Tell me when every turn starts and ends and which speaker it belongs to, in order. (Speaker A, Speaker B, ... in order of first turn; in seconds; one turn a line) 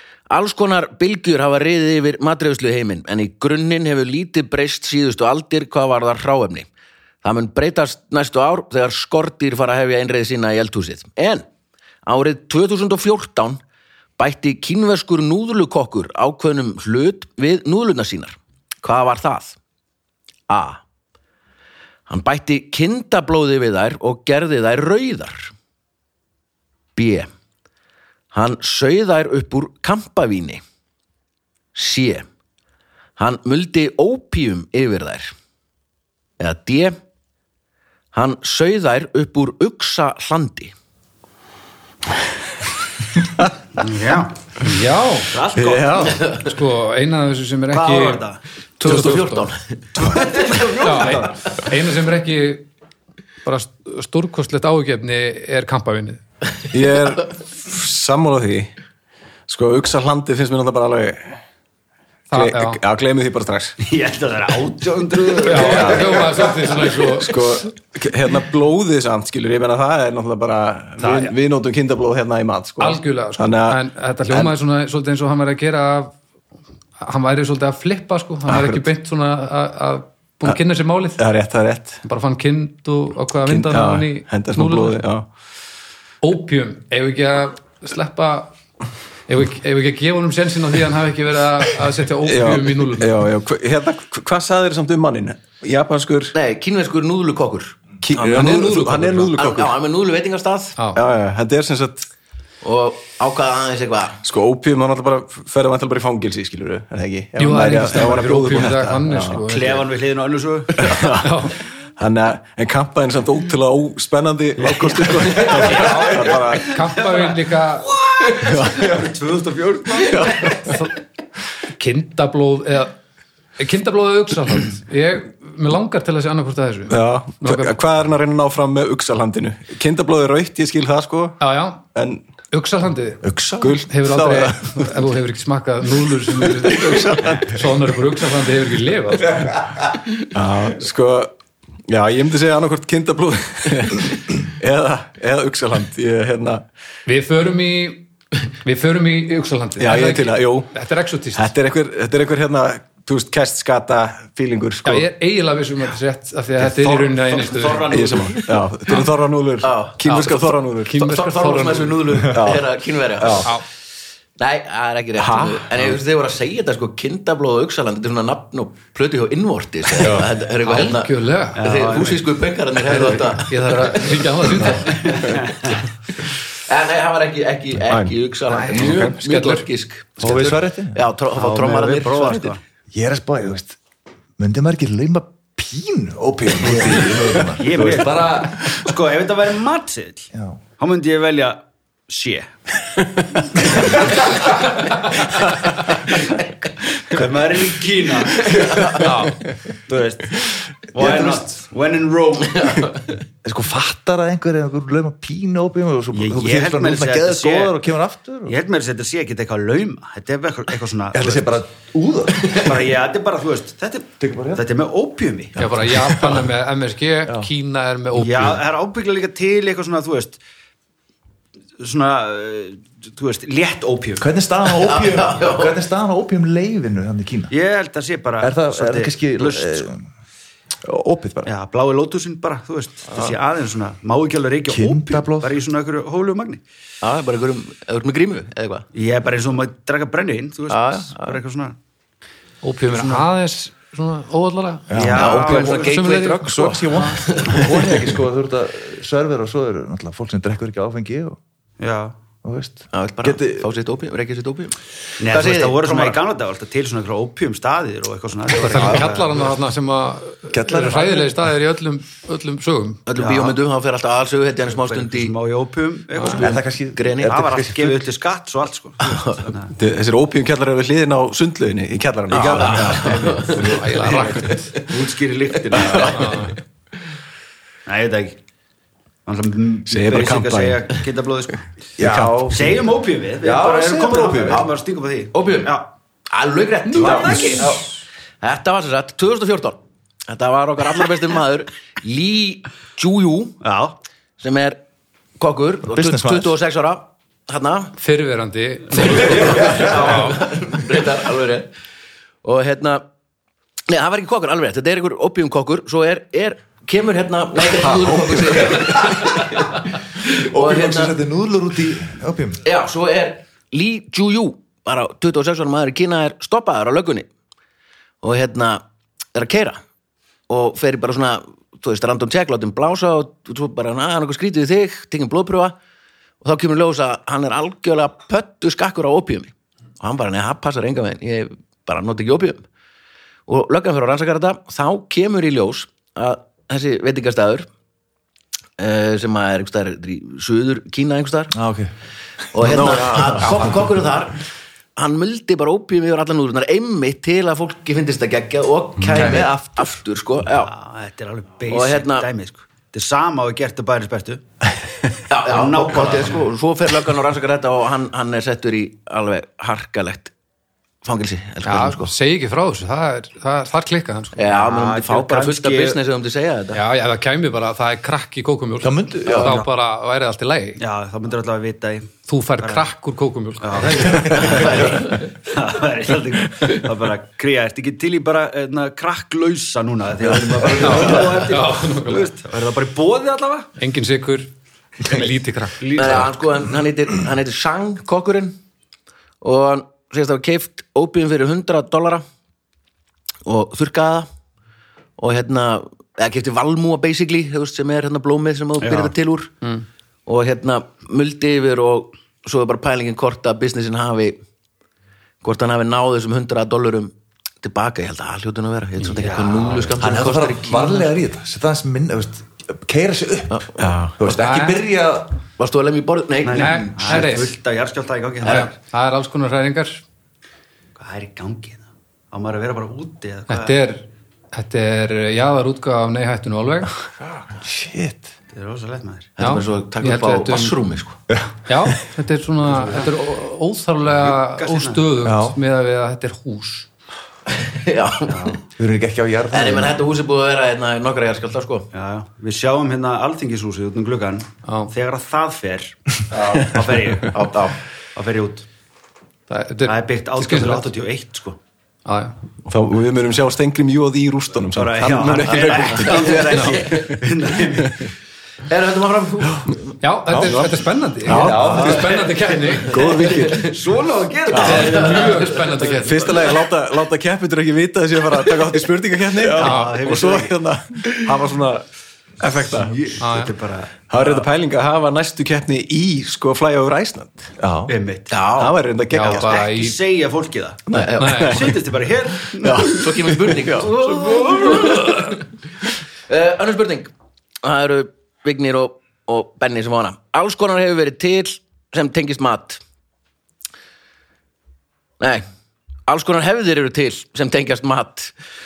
Speaker A: 0.3-6.7
Speaker A: 7.2-11.5
Speaker A: 12.1-13.6
Speaker A: 14.2-19.6
Speaker A: 20.5-20.8
Speaker A: 22.1-25.5
Speaker A: 26.9-27.3
Speaker A: 28.3-30.6
Speaker A: 31.7-32.3
Speaker A: 33.2-35.3
Speaker A: 36.4-37.0
Speaker A: 38.1-40.7
Speaker B: 43.8-44.4
Speaker C: 44.6-45.3
Speaker B: 45.3-46.3
Speaker D: 45.5-46.2
Speaker C: 46.2-48.2
Speaker B: 47.7-48.4
Speaker A: 48.8-51.2
Speaker C: 48.8-49.5
Speaker B: 50.0-51.2
Speaker C: 50.8-52.7
Speaker C: 53.4-56.2
Speaker D: 56.7-58.7
Speaker D: 59.5-61.4
Speaker C: 62.3-62.8
Speaker D: 62.3-63.8
Speaker B: 63.8-66.9
Speaker D: 65.4-66.5
Speaker C: 65.4-67.6
Speaker D: 67.1-74.5
Speaker B: 71.0-71.3
Speaker C: 72.8-76.1
Speaker C: 77.0-81.2
Speaker D: 78.5-78.8
Speaker D: 81.2-82.0
Speaker C: 82.0-85.0
Speaker D: 83.4-85.2
Speaker C: 86.2-88.5
Speaker C: 89.3-93.2
Speaker D: 92.2-96.3
Speaker A: 96.3-100.8
Speaker D: 98.0-99.7
Speaker C: 100.8-101.0
Speaker D: 100.9-102.1
Speaker A: 102.6-104.2
Speaker D: 104.2-109.4
Speaker C: 107.4-109.9
Speaker B: 108.8-111.0
Speaker D: 110.8-116.8
Speaker C: 111.0-111.6
Speaker B: 114.6-116.0
Speaker C: 115.6-117.9
Speaker B: 116.8-120.6
Speaker D: 118.3-119.0
Speaker D: 120.0-120.8
Speaker C: 120.5-120.9
Speaker C: 121.8-122.9
Speaker C: 123.6-127.8
Speaker D: 126.9-131.4
Speaker C: 131.4-131.8
Speaker D: 131.9-132.2
Speaker C: 132.5-133.2
Speaker E: 133.2-133.8
Speaker D: 133.6-135.0
Speaker C: 133.8-139.6
Speaker D: 136.4-137.5
Speaker D: 140.3-141.3
Speaker D: 141.9-146.6
Speaker C: 147.1-148.1
Speaker C: 148.6-151.5
Speaker D: 149.8-150.7
Speaker D: 151.3-155.1
Speaker C: 154.8-157.8
Speaker B: 156.6-158.5
Speaker D: 157.9-161.0
Speaker A: 159.6-160.0
Speaker C: 160.0-162.2
Speaker A: 161.0-163.5
Speaker D: 162.3-162.7
Speaker D: 163.2-163.5
Speaker A: 164.4-174.7
Speaker D: 165.2-165.7
Speaker E: 170.0-170.2
Speaker C: 170.6-171.6
Speaker B: 171.6-172.3
Speaker C: 172.9-175.3
Speaker B: 174.9-175.8
Speaker A: 176.6-182.5
Speaker D: 177.8-178.2
Speaker C: 178.7-179.7
Speaker D: 178.8-179.1
Speaker E: 180.2-181.0
Speaker B: 181.3-182.6
Speaker E: 182.9-183.8
Speaker E: 184.4-188.7
Speaker B: 187.6-192.5
Speaker E: 190.3-190.6
Speaker B: 193.6-194.7
Speaker B: 197.0-198.5
Speaker A: 198.4-199.2
Speaker D: 198.5-199.7
Speaker C: 198.9-199.4
Speaker B: 199.9-202.9
Speaker A: 202.5-203.2
Speaker E: 203.4-208.5
Speaker B: 206.1-207.8
Speaker B: 208.4-211.6
Speaker E: 211.1-212.8
Speaker A: 212.3-212.7
Speaker B: 212.5-215.6
Speaker E: 214.2-214.6
Speaker C: 215.6-218.6
Speaker E: 215.6-215.9
Speaker B: 218.1-220.4
Speaker B: 221.8-224.2
Speaker E: 224.2-227.5
Speaker A: 224.6-225.8
Speaker B: 227.5-229.9
Speaker E: 228.4-230.0
Speaker E: 230.8-231.5
Speaker B: 231.4-236.6
Speaker E: 234.7-235.5
Speaker A: 237.0-238.8
Speaker B: 238.9-241.8
Speaker A: 240.7-241.4
Speaker C: 242.6-247.2
Speaker B: 242.9-243.2
Speaker E: 244.9-245.4
Speaker B: 244.9-245.9
Speaker A: 245.1-248.1
Speaker E: 246.3-251.4
Speaker B: 251.8-252.1
Speaker E: 252.4-253.7
Speaker A: 252.9-256.2
Speaker B: 255.2-259.5
Speaker C: 258.6-263.0
Speaker E: 258.8-259.0
Speaker E: 260.5-261.3
Speaker A: 263.1-265.3
Speaker B: 263.1-263.6
Speaker B: 264.7-266.6
Speaker A: 266.2-267.4
Speaker E: 266.3-268.0
Speaker B: 267.2-269.7
Speaker A: 269.0-269.5
Speaker D: 269.7-273.4
Speaker B: 272.3-276.5
Speaker A: 272.3-274.7
Speaker C: 272.9-274.7
Speaker A: 275.7-276.4
Speaker C: 276.1-276.5
Speaker B: 277.9-278.4
Speaker B: 279.2-281.7
Speaker D: 279.9-280.9
Speaker E: 282.0-282.7
Speaker D: 282.0-282.8
Speaker B: 282.5-285.9
Speaker E: 283.4-284.6
Speaker A: 285.3-285.8
Speaker A: 286.3-287.9
Speaker B: 286.9-287.8
Speaker D: 287.1-287.6
Speaker C: 287.1-287.7
Speaker A: 288.4-293.6
Speaker B: 293.6-294.0
Speaker A: 294.4-294.8
Speaker A: 295.4-297.9
Speaker E: 295.9-296.5
Speaker C: 298.0-300.3
Speaker A: 299.0-301.7
Speaker E: 299.4-300.3
Speaker A: 302.4-303.0
Speaker A: 303.9-311.2
Speaker D: 307.8-309.0
Speaker E: 308.7-309.6
Speaker E: 310.3-312.6
Speaker A: 312.6-317.3
Speaker A: 318.2-318.8
Speaker A: 319.3-319.8
Speaker A: 320.5-325.8
Speaker A: 326.4-332.6
Speaker A: 333.5-337.7
Speaker A: 338.8-341.6
Speaker E: 341.5-341.9
Speaker A: 342.5-344.4
Speaker E: 342.6-343.9
Speaker D: 342.6-343.8
Speaker A: 344.9-350.7
Speaker E: 349.0-350.0
Speaker B: 350.5-354.4
Speaker A: 351.7-352.3
Speaker A: 355.3-360.3
Speaker B: 355.4-356.5
Speaker A: 361.0-362.1
Speaker C: 361.6-364.4
Speaker A: 364.3-366.8
Speaker B: 364.6-366.0
Speaker C: 366.7-370.8
Speaker E: 368.8-369.6
Speaker A: 369.2-369.6
Speaker B: 370.8-372.9
Speaker C: 372.3-374.3
Speaker B: 373.6-383.7
Speaker E: 373.9-374.8
Speaker A: 374.2-375.2
Speaker C: 380.8-382.3
Speaker C: 383.8-384.5
Speaker C: 385.0-385.9
Speaker B: 385.8-386.3
Speaker A: 385.9-388.6
Speaker A: 389.4-392.2
Speaker A: 393.4-394.3
Speaker A: 395.2-399.5
Speaker B: 398.8-399.1
Speaker A: 400.2-404.4
Speaker A: 405.4-411.1
Speaker B: 409.1-410.0
Speaker E: 410.0-415.4
Speaker A: 413.5-414.4
Speaker D: 413.8-414.2
Speaker C: 414.4-414.8
Speaker A: 415.6-417.5
Speaker B: 416.4-418.7
Speaker C: 416.5-417.5
Speaker A: 418.4-418.7
Speaker C: 418.4-420.0
Speaker B: 421.0-423.8
Speaker C: 423.5-426.9
Speaker E: 427.5-428.3
Speaker B: 428.5-429.3
Speaker A: 429.4-431.2
Speaker C: 429.4-430.8
Speaker C: 431.6-436.9
Speaker B: 432.7-433.1
Speaker B: 434.1-435.1
Speaker E: 435.2-435.6
Speaker A: 437.5-438.6
Speaker B: 438.3-438.6
Speaker E: 438.8-440.0
Speaker A: 439.5-441.9
Speaker B: 441.9-448.6
Speaker C: 444.6-444.9
Speaker D: 446.4-446.7
Speaker A: 447.2-447.8
Speaker C: 449.5-450.9
Speaker B: 449.9-451.6
Speaker C: 452.0-452.3
Speaker D: 452.6-458.1
Speaker B: 454.7-458.1
Speaker A: 455.9-457.0
Speaker C: 456.5-456.8
Speaker A: 458.7-459.9
Speaker C: 460.0-463.0
Speaker E: 460.3-460.6
Speaker D: 460.3-462.2
Speaker E: 461.2-462.2
Speaker B: 462.7-466.4
Speaker D: 462.8-463.8
Speaker D: 464.5-465.0
Speaker C: 464.6-466.4
Speaker A: 464.7-465.6
Speaker D: 466.0-471.9
Speaker E: 469.4-469.7
Speaker B: 469.4-470.5
Speaker C: 469.6-470.0
Speaker D: 472.4-473.1
Speaker B: 472.6-474.4
Speaker C: 473.2-473.5
Speaker D: 474.1-477.5
Speaker E: 477.6-477.9
Speaker B: 477.9-478.4
Speaker A: 478.3-478.8
Speaker D: 478.6-479.6
Speaker C: 479.1-480.0
Speaker B: 479.2-480.8
Speaker D: 480.9-481.8
Speaker A: 480.9-481.7
Speaker C: 481.2-481.7
Speaker B: 481.4-482.9
Speaker D: 482.5-483.9
Speaker A: 482.8-485.4
Speaker B: 483.9-485.1
Speaker A: 486.3-492.8
Speaker A: 496.1-498.3